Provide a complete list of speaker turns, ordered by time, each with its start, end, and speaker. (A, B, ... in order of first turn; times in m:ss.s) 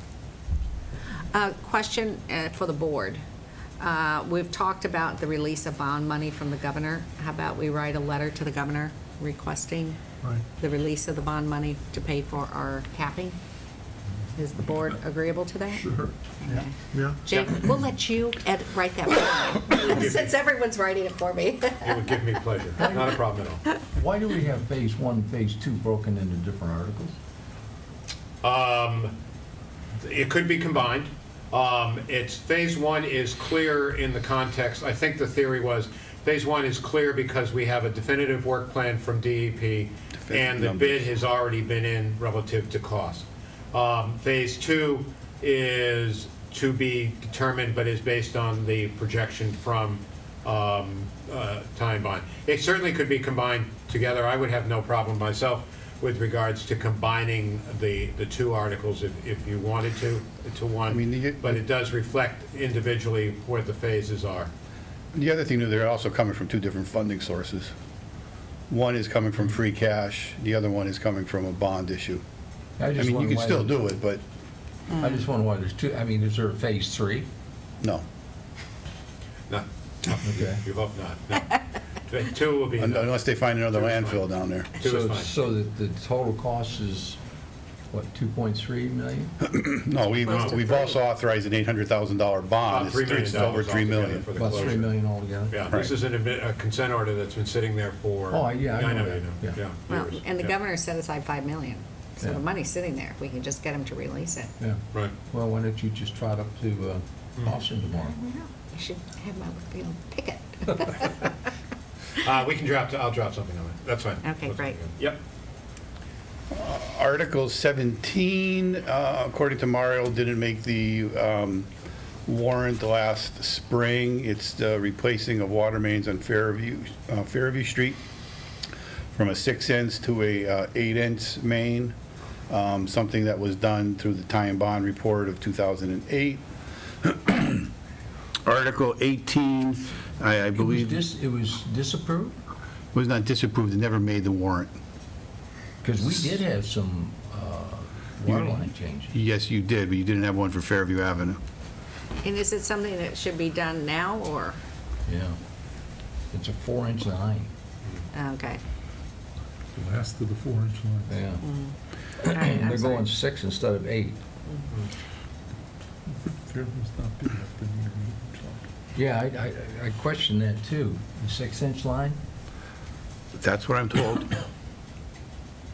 0:01.3-0:03.2 A
0:03.8-0:10.0 A
0:10.6-0:13.4 A
0:14.4-0:15.9 A
0:15.8-0:17.2 B
0:16.4-0:22.2 A
0:19.8-0:20.3 C
0:21.8-0:23.6 C
0:23.9-0:27.2 D
0:28.4-0:29.2 C
0:30.0-1:04.5 C
0:40.2-0:41.0 E
1:00.9-1:01.6 E
1:05.1-1:07.7 E
1:08.7-1:12.2 E
1:12.8-1:13.8 D
1:12.9-1:14.2 E
1:15.0-1:17.3 D
1:19.5-1:23.2 C
1:20.2-1:20.6 D
1:22.8-1:24.7 E
1:23.7-1:25.3 C
1:24.8-1:27.2 D
1:27.9-1:29.3 D
1:29.4-1:34.2 E
1:30.2-1:30.6 C
1:30.2-1:31.0 A
1:32.6-1:40.6 C
1:34.3-1:35.6 D
1:38.3-1:39.6 D
1:39.9-1:44.5 A
1:44.6-1:48.2 D
1:48.1-1:51.4 A
1:52.2-1:55.2 C
1:54.2-1:54.8 A
1:56.5-2:01.7 E
2:02.2-2:08.0 E
2:09.1-2:11.9 E
2:12.5-2:16.4 E
2:17.0-2:17.7 E
2:18.4-2:21.0 E
2:20.6-2:22.4 D
2:22.9-2:24.7 E
2:25.8-2:29.1 D
2:28.3-2:31.4 E
2:32.2-2:34.6 A
2:35.0-2:35.4 D
2:36.3-2:37.5 D
2:38.1-2:38.6 A
2:39.7-2:41.2 B
2:41.1-2:41.4 D
2:41.4-2:43.1 A
2:42.3-2:44.2 D
2:46.1-2:48.6 B
2:49.0-2:52.2 D
2:53.4-2:54.3 E